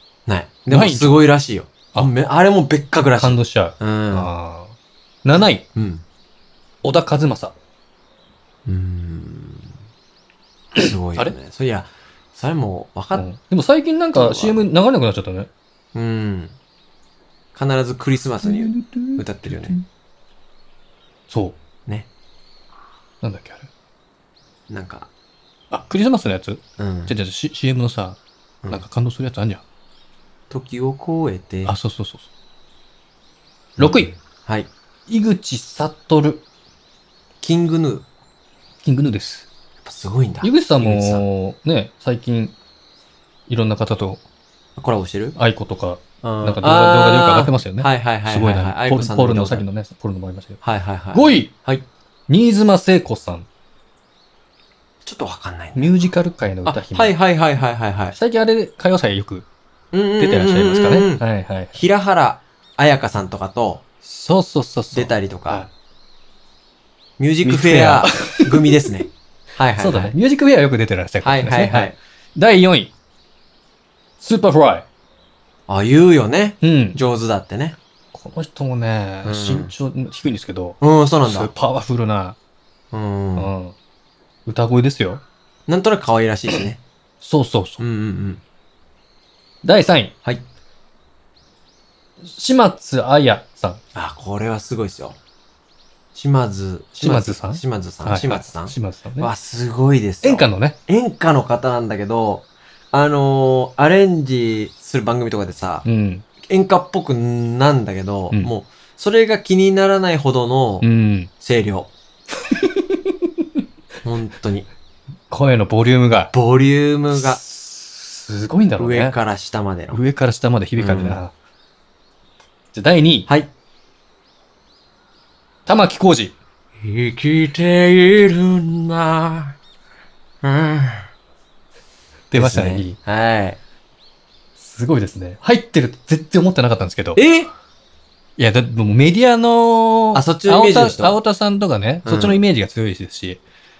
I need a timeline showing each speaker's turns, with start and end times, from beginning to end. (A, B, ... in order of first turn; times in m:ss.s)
0:00.2-0:04.3 A
0:00.7-0:01.3 B
0:03.2-0:05.6 B
0:05.7-0:06.0 A
0:06.8-0:07.5 B
0:08.6-0:09.7 A
0:10.8-0:13.3 A
0:10.8-0:11.3 B
0:13.1-0:15.5 B
0:14.1-0:14.7 A
0:15.9-0:16.5 A
0:17.5-0:19.8 A
0:18.4-0:19.8 B
0:21.3-0:21.6 B
0:23.2-0:23.7 B
0:24.7-0:25.1 A
0:25.7-0:28.2 B
0:26.8-0:27.2 A
0:28.7-0:29.6 B
0:30.5-0:31.7 A
0:31.6-0:32.3 B
0:33.8-0:34.7 A
0:33.8-0:34.1 B
0:35.1-0:36.4 B
0:37.4-0:38.0 A
0:38.8-0:39.4 B
0:39.8-0:41.2 A
0:40.4-0:42.5 B
0:43.5-0:44.2 B
0:44.8-0:45.4 A
0:45.4-0:50.6 B
0:46.2-0:49.6 A
0:50.6-0:51.8 A
0:51.1-0:51.5 B
0:52.3-0:53.5 B
0:55.0-0:56.0 A
0:55.8-0:57.2 B
0:56.6-0:58.2 A
0:58.1-0:59.5 B
0:59.9-1:03.8 A
1:00.2-1:01.8 B
1:04.0-1:05.7 B
1:04.9-1:05.7 A
1:07.2-1:10.1 A
1:07.4-1:08.8 B
1:09.8-1:12.9 B
1:11.2-1:11.9 A
1:14.2-1:14.8 B
1:15.7-1:17.8 A
1:16.6-1:17.0 B
1:18.1-1:22.4 B
1:19.2-1:19.7 A
1:20.8-1:21.5 A
1:22.9-1:23.5 A
1:23.4-1:23.7 B
1:24.4-1:25.2 B
1:25.7-1:26.8 A
1:27.2-1:27.8 B
1:27.8-1:28.4 A
1:29.6-1:30.1 B
1:32.2-1:33.8 B
1:33.9-1:35.2 A
1:36.1-1:45.8 A
1:37.0-1:39.3 B
1:40.2-1:40.8 B
1:45.8-1:46.2 B
1:46.4-1:50.8 A
1:50.8-1:51.3 B
1:51.4-1:51.9 A
1:52.5-1:52.8 B
1:54.0-1:54.7 A
1:55.3-1:56.3 B
1:56.3-1:57.4 A
1:57.1-1:59.2 B
1:58.8-2:00.0 A
1:59.9-2:01.3 B
2:00.8-2:01.2 A
2:02.7-2:03.3 B
2:05.6-2:06.3 B
2:06.8-2:09.6 A
2:10.4-2:11.1 A
2:12.3-2:13.0 B
2:12.3-2:13.6 A
2:14.6-2:17.2 B
2:17.2-2:17.5 A
2:18.4-2:23.4 B
2:20.1-2:21.2 A
2:22.0-2:22.4 A